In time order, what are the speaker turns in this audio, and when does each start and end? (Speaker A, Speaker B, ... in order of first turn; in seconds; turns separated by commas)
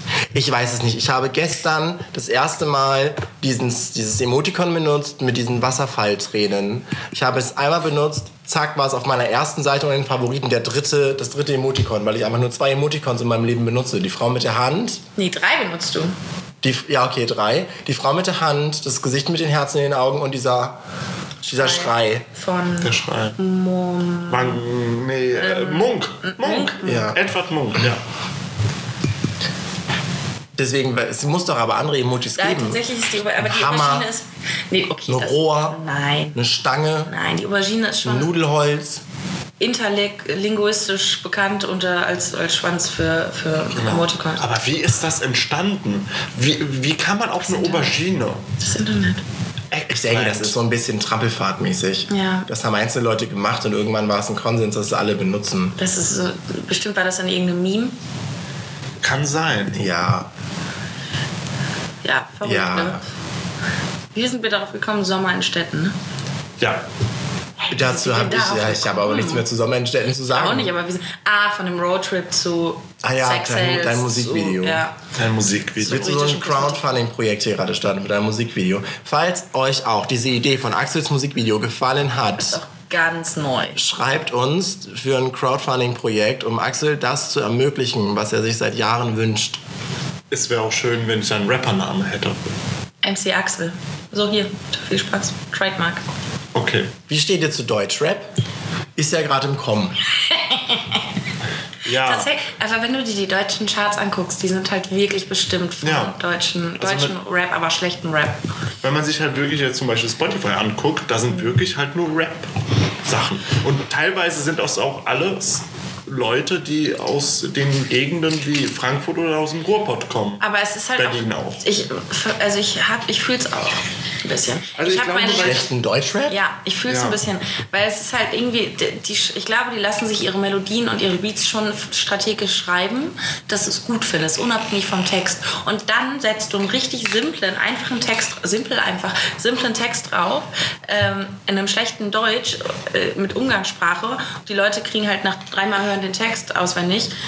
Speaker A: 0.3-15.0, Speaker B: 15.2-16.1, Speaker A: 16.6-20.8, Speaker A: 21.4-22.3, Speaker B: 21.6-24.6, Speaker C: 22.8-23.4, Speaker C: 24.3-28.0, Speaker B: 25.4-27.1, Speaker A: 26.8-27.2, Speaker A: 30.6-32.8, Speaker B: 32.4-36.4, Speaker A: 33.4-34.1, Speaker A: 35.1-35.8, Speaker A: 36.4-37.1, Speaker B: 37.1-38.3, Speaker A: 38.0-39.0, Speaker B: 39.6-44.4, Speaker C: 43.7-48.4, Speaker B: 47.4-48.0, Speaker B: 48.6-49.2, Speaker C: 49.7-50.6, Speaker A: 49.9-55.8, Speaker B: 52.1-52.5, Speaker B: 55.8-58.0, Speaker C: 59.0-59.9, Speaker A: 59.7-60.3, Speaker B: 62.0-63.0, Speaker A: 62.4-63.0, Speaker B: 64.1-66.0, Speaker C: 66.6-66.9, Speaker B: 67.6-69.5, Speaker A: 67.7-70.7, Speaker B: 70.3-75.0, Speaker A: 73.0-74.8, Speaker C: 75.2-76.2, Speaker B: 75.8-77.0, Speaker A: 75.8-82.6, Speaker B: 82.4-83.8, Speaker A: 83.8-89.6, Speaker C: 90.3-92.4, Speaker B: 93.0-96.0, Speaker C: 96.5-96.9, Speaker A: 97.1-98.3, Speaker A: 99.0-100.0, Speaker B: 100.2-101.1, Speaker C: 101.8-102.3, Speaker B: 101.9-108.4, Speaker C: 105.8-106.2, Speaker C: 106.8-107.2, Speaker C: 108.8-112.5, Speaker C: 113.0-120.4, Speaker B: 120.4-125.6, Speaker C: 121.0-121.6, Speaker C: 124.8-125.6, Speaker A: 125.3-126.4, Speaker B: 126.3-147.1, Speaker C: 126.9-127.2